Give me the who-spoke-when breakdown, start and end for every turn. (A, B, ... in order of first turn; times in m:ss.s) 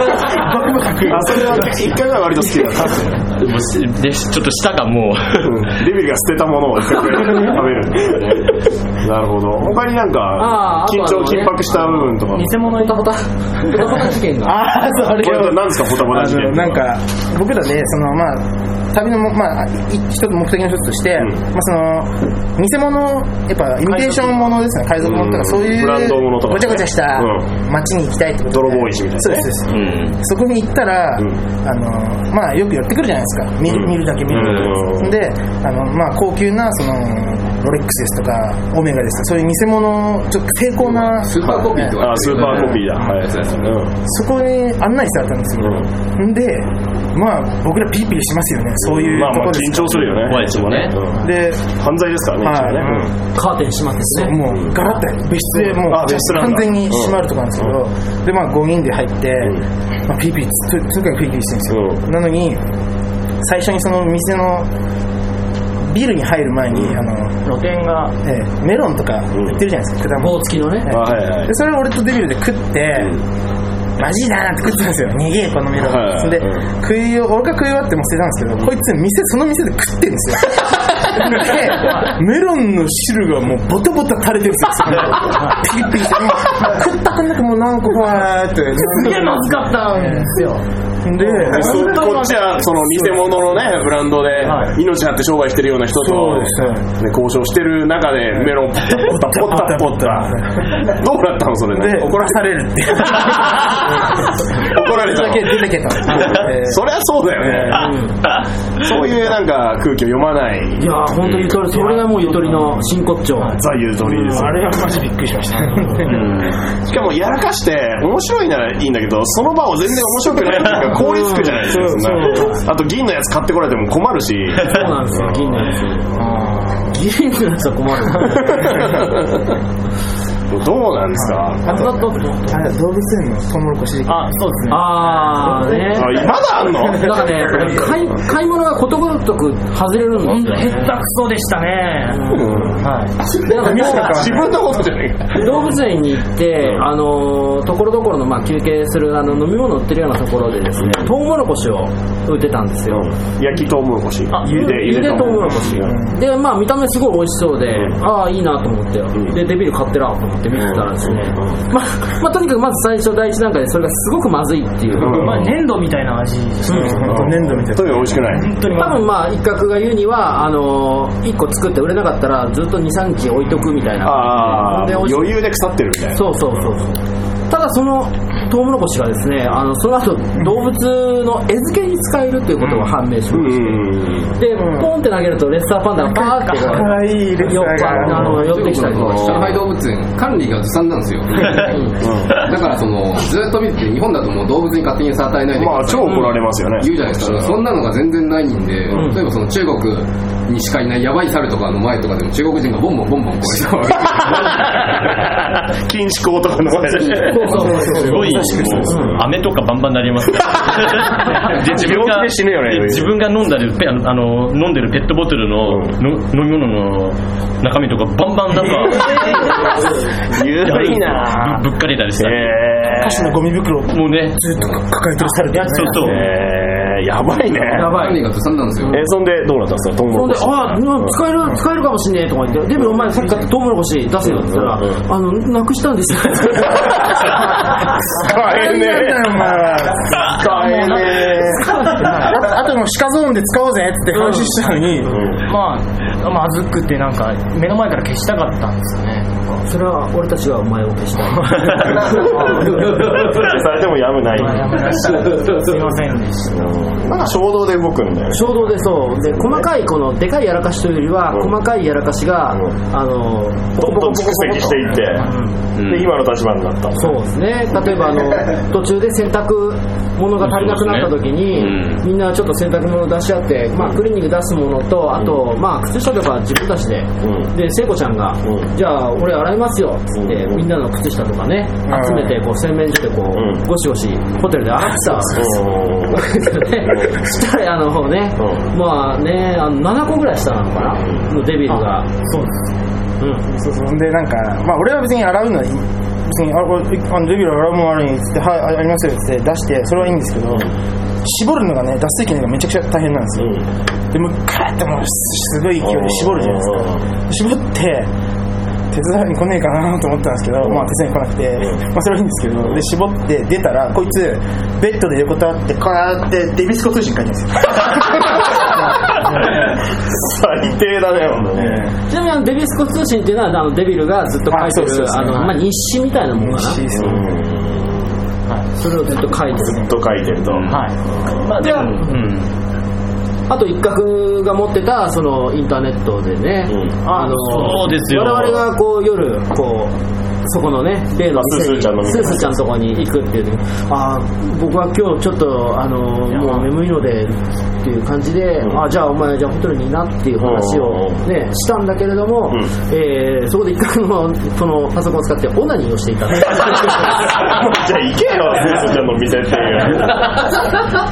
0:00.2-0:01.8 A
0:01.0-0:03.3 B
0:03.4-0:05.7 C
0:05.4-0:12.6 B
0:10.4-0:14.6 D
0:12.3-0:13.0 E
0:13.7-0:14.0 E
0:14.4-0:43.1 A
0:15.1-0:16.8 B
0:23.9-0:24.6 E
0:25.0-0:27.4 B
0:28.5-0:29.5 B
0:29.7-0:30.2 C
0:33.7-0:35.2 B
0:34.3-0:34.6 C
0:41.1-0:43.8 F
0:42.0-0:43.9 B
0:44.0-0:50.3 A
0:48.8-0:51.2 B
0:50.1-0:51.0 C
0:51.2-0:51.7 A
0:51.8-0:53.1 B
0:52.4-0:53.1 A
0:53.3-0:54.4 D
0:54.1-1:02.6 A
0:55.6-0:57.2 B
1:01.7-1:02.0 B
1:03.4-1:04.7 A
1:05.8-1:07.4 A
1:07.4-1:08.1 E
1:08.2-1:13.1 A
1:10.2-1:10.9 D
1:10.9-1:11.5 B
1:14.0-1:30.4 A
1:15.8-1:16.6 B
1:25.2-1:25.6 E
1:28.7-1:30.6 E
1:31.0-1:33.6 A
1:31.2-1:32.3 E
1:31.4-1:42.4 B
1:34.3-1:34.8 E
1:36.0-1:36.8 A
1:38.4-1:41.0 A
1:41.7-1:46.8 A
1:43.1-1:47.9 B
1:47.4-1:47.9 A
1:47.7-1:48.2 D
1:48.8-1:51.6 B
1:50.8-1:53.6 D
1:51.7-1:52.8 E
1:53.6-1:54.8 B
1:54.3-1:56.4 A
1:55.6-1:56.0 E
1:56.1-1:56.5 C
1:56.1-2:05.7 B
2:00.9-2:01.7 D
2:01.6-2:02.6 A
2:02.3-2:02.6 E
2:04.6-2:06.2 D
2:06.8-2:09.0 D
2:08.4-2:09.5 B
2:10.5-2:12.1 B
2:11.1-2:12.6 E
2:11.6-2:14.4 A
2:14.1-2:16.3 E
2:14.7-2:16.3 D
2:15.9-2:17.7 B
2:16.8-2:20.9 D
2:20.2-2:23.1 E
2:22.1-2:22.8 D
2:22.3-2:25.5 B
2:23.3-2:24.3 D
2:23.6-2:24.7 A
2:25.3-2:33.1 D
2:30.8-2:31.1 B
2:32.9-2:36.1 B
2:34.3-2:35.2 E
2:34.4-2:45.3 D
2:35.7-2:36.1 A
2:37.7-2:38.0 B
2:40.5-2:41.6 B
2:44.9-2:45.5 B
2:45.0-2:47.5 E
2:46.6-2:47.0 D
2:46.7-2:48.3 A
2:46.8-2:48.6 B
2:48.2-2:49.1 E
2:48.8-2:55.4 D
2:54.0-2:56.4 B
2:56.1-3:09.5 D
3:02.8-3:04.4 B
3:04.5-3:04.9 A
3:06.1-3:08.4 A
3:08.0-3:24.8 F
3:08.1-3:09.6 B
3:11.4-3:12.4 B
3:11.7-3:12.0 D
3:15.5-3:17.6 B
3:16.0-3:16.3 D
3:18.9-3:19.2 D
3:24.1-3:29.3 B
3:27.2-3:29.1 D
3:27.5-3:29.0 A
3:27.8-3:39.8 C
3:30.6-3:33.1 B
3:35.7-3:35.9 B
3:38.7-3:39.7 B
3:40.3-3:41.6 B
3:40.6-3:43.1 C
3:42.2-3:43.3 B
3:42.9-3:46.0 A
3:43.9-3:44.4 C
3:45.3-3:46.2 E
3:45.7-3:46.2 C
3:46.0-3:48.2 B
3:47.6-3:49.0 F
3:47.6-3:48.2 D
3:48.9-3:51.1 B
3:50.1-3:57.7 D
3:54.2-3:55.0 B
3:56.6-3:57.4 B
3:58.2-4:05.2 A
3:58.2-3:59.5 B
3:59.7-4:02.4 E
4:00.2-4:01.4 B
4:04.1-4:04.6 D
4:05.1-4:05.4 B
4:05.4-4:09.6 E
4:09.6-4:13.5 D
4:11.5-4:13.0 E
4:11.7-4:15.2 B
4:14.3-4:16.8 E
4:16.5-4:19.6 B
4:18.3-4:25.5 D
4:23.8-4:25.3 B
4:25.0-4:25.5 E
4:25.8-4:26.1 C
4:25.8-4:27.2 B
4:26.9-4:52.1 D
4:30.4-4:32.0 C
4:37.2-4:37.5 B
4:38.4-4:38.7 B
4:40.1-4:40.6 B
4:41.9-4:42.3 A
4:43.3-4:43.6 B
4:45.2-4:47.2 B
4:51.0-4:51.3 B
4:51.6-4:52.7 E
4:53.2-4:53.4 D
4:53.5-5:00.7 A
5:01.2-5:03.6 A
5:03.4-5:03.6 B
5:04.1-5:08.1 A
5:05.8-5:07.0 B
5:08.9-5:19.8 A
5:18.0-5:21.9 B
5:21.5-5:21.9 A
5:22.1-5:27.0 D
5:24.5-5:25.5 A
5:26.3-5:27.4 A
5:27.0-5:28.1 B
5:28.8-5:30.0 D
5:29.6-5:31.5 B
5:30.5-5:32.5 C
5:30.7-5:31.0 E
5:31.6-5:32.0 D
5:33.5-5:57.3 D
5:37.0-5:37.9 E
5:37.5-5:38.6 C
5:41.3-5:42.6 B
5:46.3-5:46.7 E
5:50.4-5:51.2 B
5:56.8-6:00.6 B